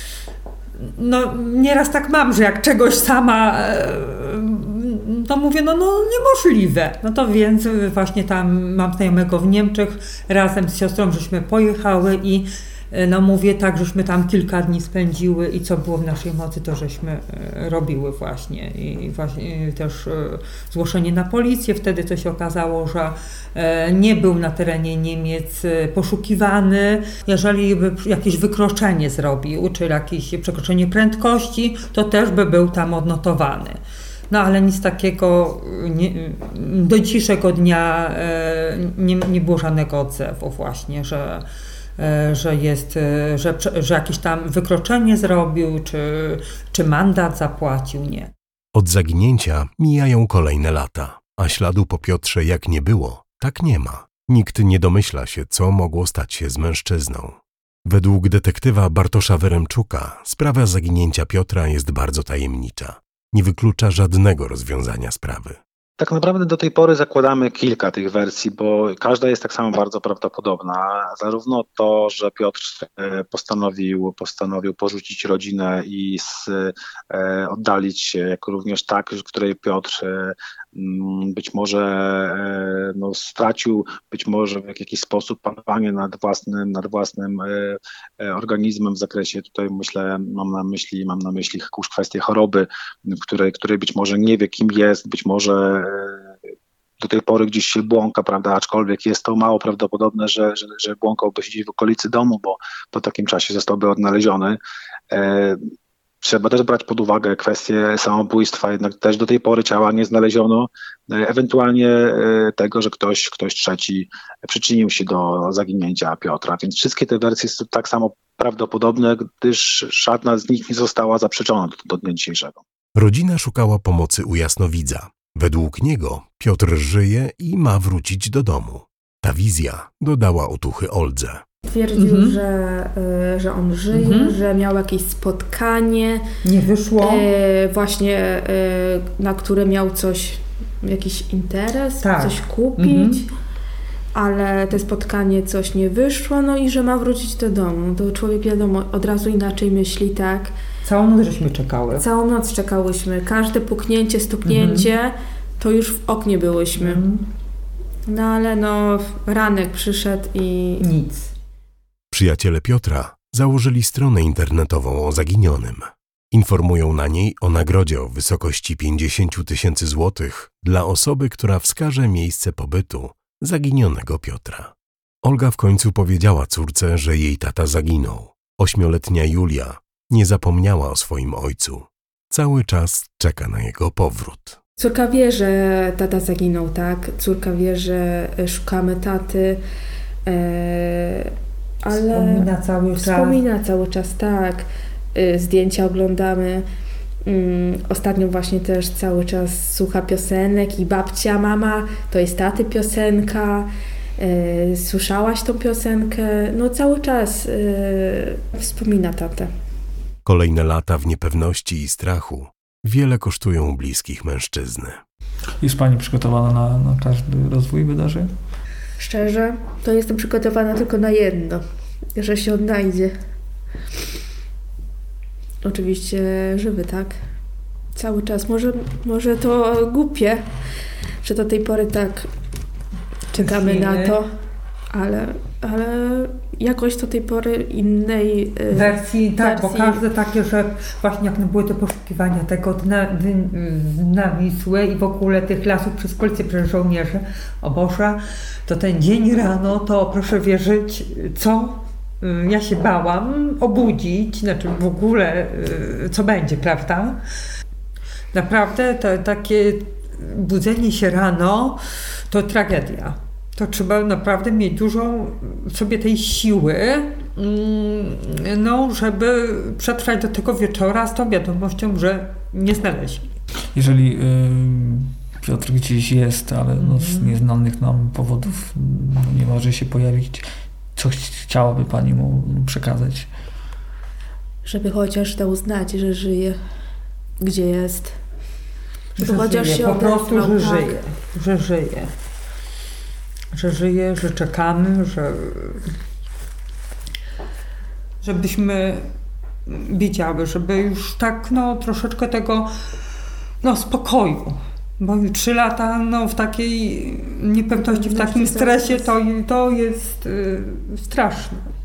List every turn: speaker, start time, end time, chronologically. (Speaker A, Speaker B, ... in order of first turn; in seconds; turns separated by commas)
Speaker A: 0.8-33.8, Speaker A: 34.3-41.5, Speaker A: 42.0-48.3, Speaker B: 48.7-65.6, Speaker C: 66.0-96.3, Speaker C: 97.0-104.6, Speaker C: 105.1-105.6, Speaker C: 106.2-122.6, Speaker B: 123.0-131.4, Speaker D: 131.7-136.3, Speaker A: 131.9-132.4, Speaker A: 133.9-134.4, Speaker A: 136.4-137.3, Speaker D: 137.0-143.3, Speaker A: 142.0-143.2, Speaker D: 144.1-150.5, Speaker A: 150.8-152.1, Speaker D: 152.0-157.0, Speaker A: 154.4-154.9, Speaker A: 156.8-157.3, Speaker D: 158.1-160.9, Speaker A: 160.8-161.3, Speaker B: 162.1-184.6, Speaker D: 184.8-189.6, Speaker D: 190.3-196.7, Speaker A: 191.9-193.4, Speaker D: 197.2-209.5, Speaker B: 210.2-215.0, Speaker E: 215.6-218.3, Speaker D: 219.0-221.6, Speaker D: 222.2-223.2, Speaker D: 225.6-227.2, Speaker D: 227.9-230.5, Speaker D: 231.2-232.3, Speaker D: 233.3-234.3, Speaker A: 233.3-234.2, Speaker D: 234.9-240.0, Speaker A: 238.7-257.2, Speaker A: 258.3-273.3, Speaker E: 273.8-283.3, Speaker A: 276.8-277.4, Speaker D: 284.6-286.6, Speaker D: 287.4-288.2, Speaker D: 289.2-291.0, Speaker A: 289.2-292.1, Speaker A: 293.5-295.9, Speaker A: 298.2-299.1, Speaker A: 299.7-302.7, Speaker A: 303.6-311.7, Speaker D: 307.8-309.1